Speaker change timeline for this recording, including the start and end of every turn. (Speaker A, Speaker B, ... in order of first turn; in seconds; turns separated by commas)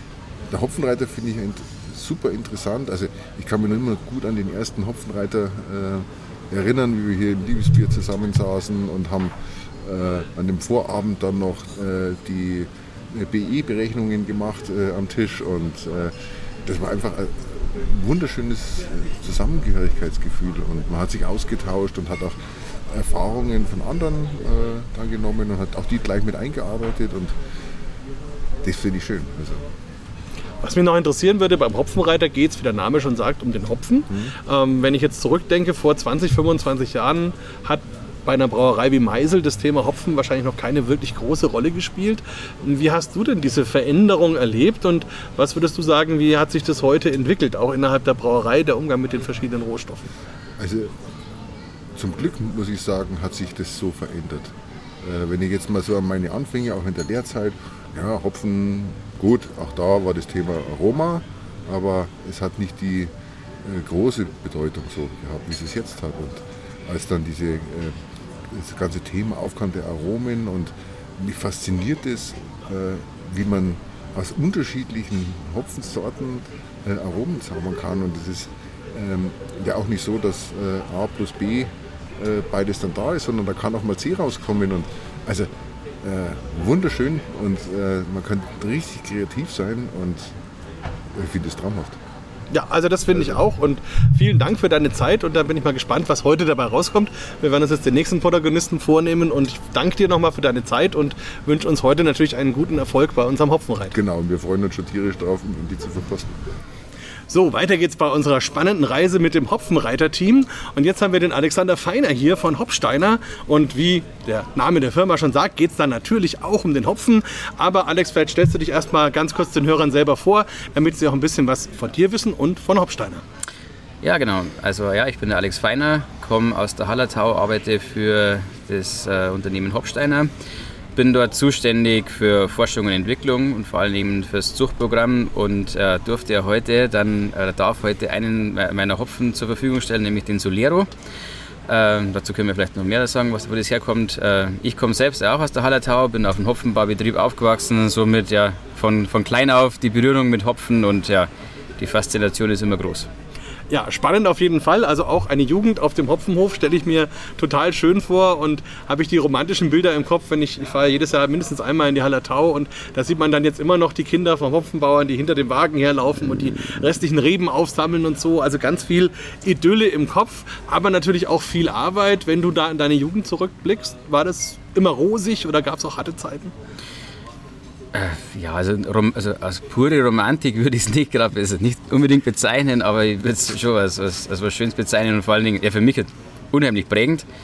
Speaker A: 0.5-27.4, Speaker A: 28.6-29.7, Speaker B: 30.6-50.1, Speaker A: 34.1-34.3, Speaker A: 50.6-51.0, Speaker A: 52.0-85.5, Speaker A: 86.0-90.3, Speaker A: 91.1-92.0, Speaker B: 92.5-104.0, Speaker A: 93.1-93.4, Speaker A: 103.9-106.4, Speaker B: 107.3-123.2, Speaker C: 124.0-130.3, Speaker C: 131.0-140.9, Speaker C: 141.7-153.1, Speaker B: 153.7-176.5, Speaker C: 177.9-187.2